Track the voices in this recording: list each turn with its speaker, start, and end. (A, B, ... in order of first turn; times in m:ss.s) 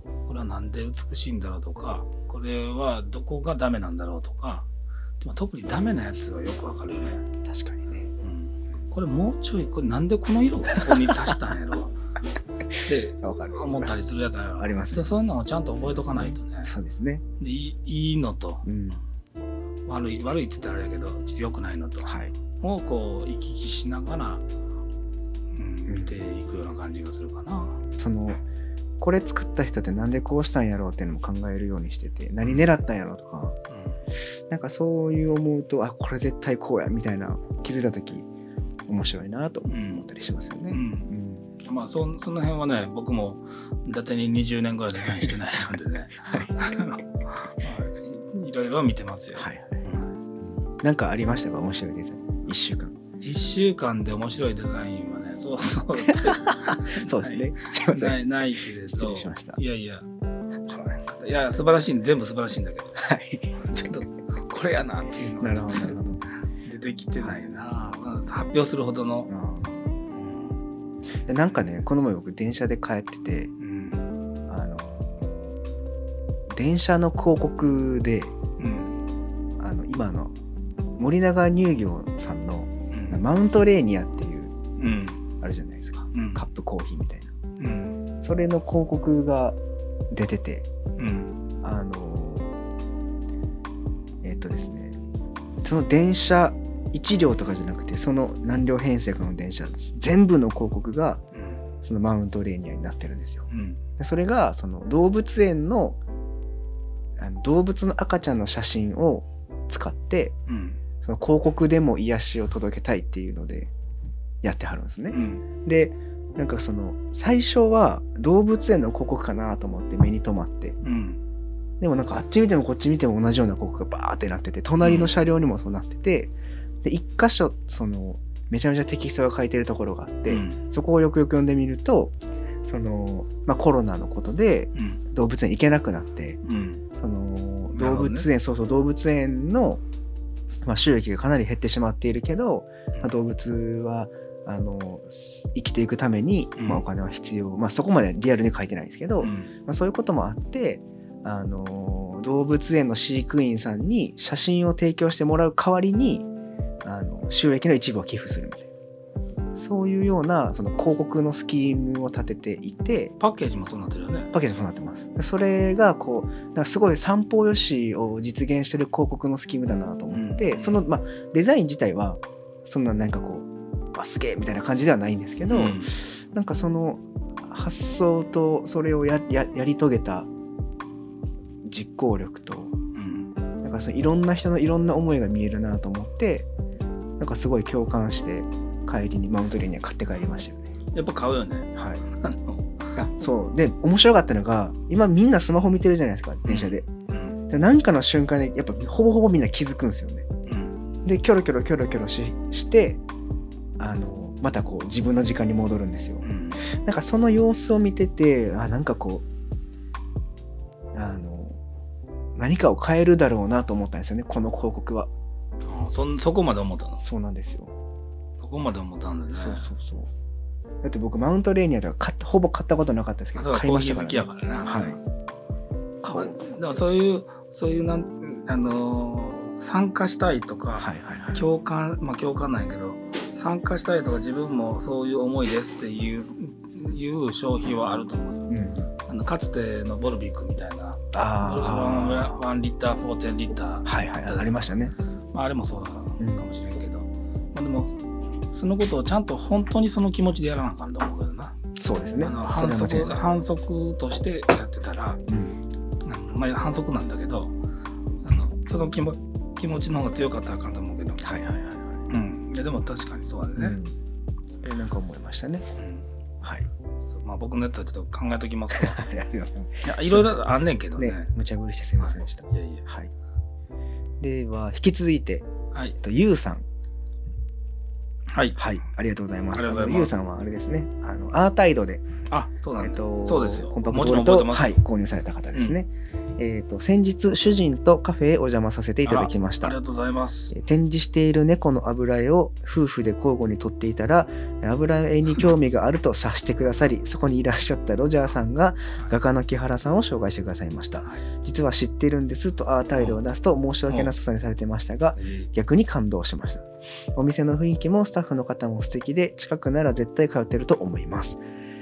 0:00.3-0:04.6 A
0:05.2-0:07.2 A
0:07.4-0:08.1 B
0:08.2-0:11.9 A
0:12.8-0:16.7 A
0:13.2-0:14.0 B
0:14.6-0:17.2 B
0:17.4-0:18.7 A
0:18.6-0:19.0 B
0:19.8-0:24.4 A
0:22.0-0:22.3 B
0:25.5-0:27.8 A
0:25.9-0:26.2 B
0:28.0-0:28.4 B
0:29.0-0:33.6 B
0:32.4-0:32.7 A
0:33.7-0:34.0 A
0:34.2-0:38.3 B
0:38.9-0:41.5 B
0:39.7-0:40.1 A
0:40.7-0:41.1 A
0:41.6-0:50.2 A
0:46.2-0:46.7 B
0:49.4-0:49.8 B
0:50.4-0:53.0 B
0:53.2-1:00.1 A
0:56.1-0:58.2 B
0:58.9-0:59.6 B
1:00.7-1:03.0 A
1:03.0-1:03.5 B
1:03.5-1:06.0 A
1:05.4-1:06.2 B
1:06.6-1:09.3 A
1:09.3-1:09.8 B
1:10.1-1:10.6 A
1:11.2-1:13.5 B
1:13.6-1:14.1 A
1:14.5-1:15.5 B
1:16.5-1:18.3 B
1:18.6-1:19.0 A
1:19.6-1:20.3 B
1:21.0-1:24.5 B
1:22.9-1:23.2 A
1:24.8-1:25.2 A
1:25.4-1:27.3 B
1:26.1-1:26.4 A
1:27.6-1:28.0 A
1:28.2-1:29.6 B
1:30.1-1:30.7 B
1:31.0-1:31.4 A
1:31.6-1:32.5 B
1:34.2-1:35.0 B
1:35.6-1:41.2 B
1:41.3-1:41.6 A
1:41.8-1:43.4 B
1:43.5-1:43.8 A
1:44.0-1:46.0 B
1:47.2-1:50.3 B
1:50.5-1:50.8 A
1:51.0-1:53.7 B
1:54.4-2:00.8 B
1:55.1-1:55.4 A
2:00.8-2:01.2 A
2:01.8-2:12.1 B
2:04.8-2:05.1 A
2:10.3-2:10.6 A
2:12.6-2:16.4 B
2:14.7-2:15.0 A
2:16.4-2:16.8 A
2:17.0-2:19.8 B
2:17.7-2:18.3 A
2:20.6-2:36.3 B
2:26.6-2:26.8 A
2:29.2-2:29.5 A
2:36.8-2:38.7 B
2:39.6-2:43.1 B
2:43.2-2:44.3 A
2:44.3-3:00.3 B
2:50.1-2:50.8 A
2:55.5-2:56.0 A
3:01.6-3:02.7 B
3:02.9-3:03.3 A
3:03.6-3:06.5 B
3:07.2-3:10.7 B
3:10.9-3:12.8 A
3:11.7-3:12.0 B
3:13.0-3:16.9 B
3:16.5-3:17.4 A
3:17.5-3:20.2 B
3:20.5-3:20.8 A
3:21.0-3:23.0 B
3:23.8-3:29.2 B
3:26.2-3:26.6 A
3:30.9-3:31.6 B
3:32.4-3:35.1 B
3:35.6-3:37.0 A
3:37.0-3:37.7 B
3:38.4-3:39.7 A
3:39.3-3:40.1 B
3:40.8-3:45.0 B
3:43.4-3:45.0 A
3:46.0-3:58.5 A
3:46.0-3:46.4 B
3:50.8-3:51.4 B
3:58.5-3:58.9 B
3:59.1-4:04.6 A
4:01.1-4:02.4 B
4:03.8-4:04.9 B
4:05.3-4:07.9 A
4:06.2-4:06.4 B
4:08.5-4:11.5 A
4:11.8-4:13.2 B
4:12.2-4:15.2 A
4:15.3-4:15.6 B
4:16.0-4:17.5 A
4:18.2-4:21.2 A
4:21.2-4:22.0 B
4:22.1-4:23.8 A
4:23.6-4:24.0 B
4:24.6-4:25.6 B
4:25.8-4:26.0 A
4:26.4-4:26.7 B
4:27.1-4:29.0 A
4:28.7-4:33.1 B
4:29.8-4:31.3 A
4:32.0-4:32.8 A
4:34.2-4:35.4 B
4:36.0-4:36.6 B
4:38.3-4:38.6 A
4:38.6-4:42.0 B
4:39.5-4:40.1 A
4:42.3-4:44.8 A
4:42.8-4:49.8 B
4:49.0-4:50.6 A
4:50.5-5:11.4 B
5:02.9-5:03.2 A
5:03.9-5:04.1 A
5:05.2-5:05.5 A